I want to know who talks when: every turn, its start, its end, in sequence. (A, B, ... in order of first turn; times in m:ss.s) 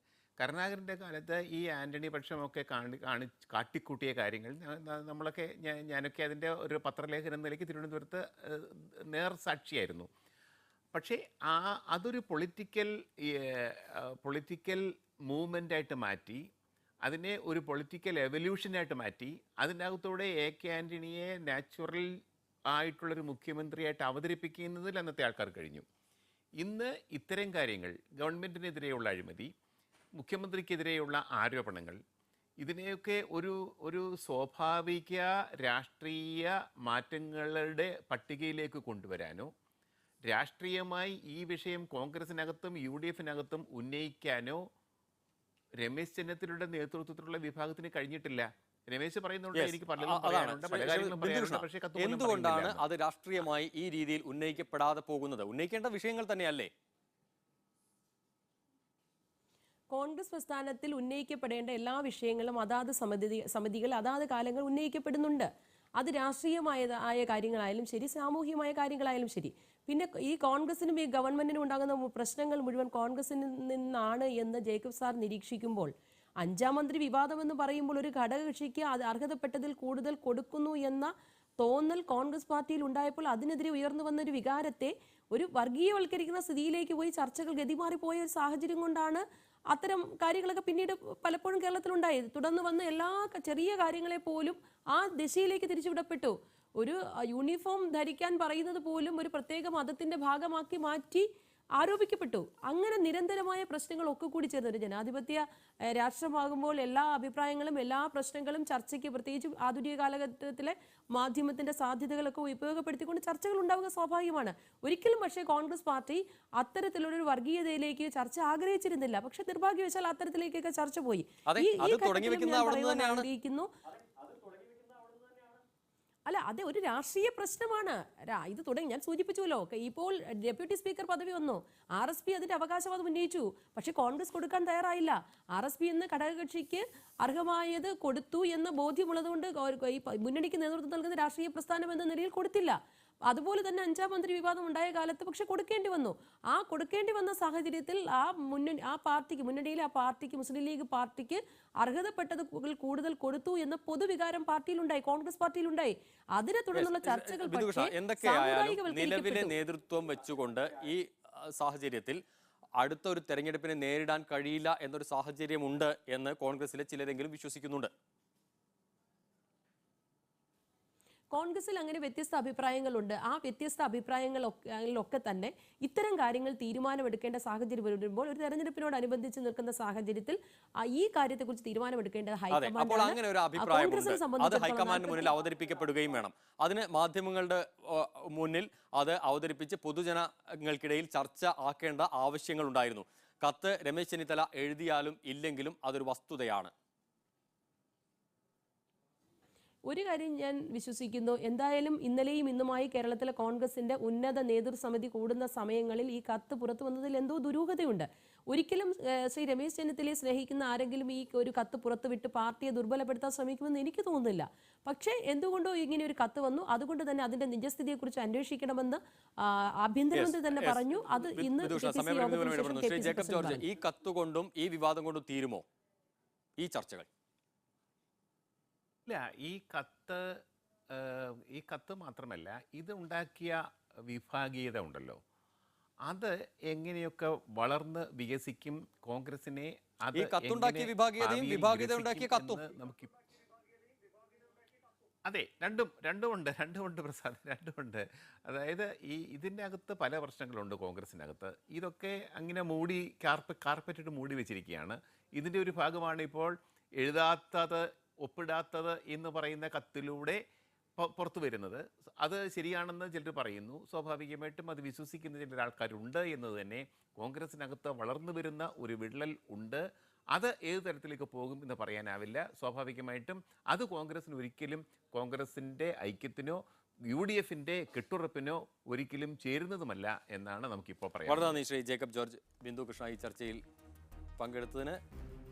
0:00.4-0:10.1 A
0:10.9-0:16.4 A
0:17.0-0:22.1 A
0:22.7-0:25.8 A
0:26.6-0:29.5 A
0:30.2-0:32.0 A
0:32.6-0:39.5 A
0:40.2-0:44.6 A
0:45.8-0:52.8 A
0:49.5-0:56.7 B
0:59.9-1:41.3 C
1:41.8-2:03.7 C
2:01.5-2:03.2 B
2:06.3-2:22.8 C
2:23.3-2:39.5 C
2:36.7-2:42.2 B
2:42.8-2:47.9 B
2:51.3-3:05.3 C
3:02.5-3:16.7 B
3:19.9-3:43.6 C
3:40.1-3:45.6 B
3:46.6-3:47.1 B
3:49.1-3:50.2 A
3:50.9-3:55.2 A
3:56.0-4:03.2 A
4:00.1-4:02.6 B
4:05.2-4:20.4 A
4:21.0-4:41.6 A
4:41.3-4:43.6 B
4:44.4-4:45.0 B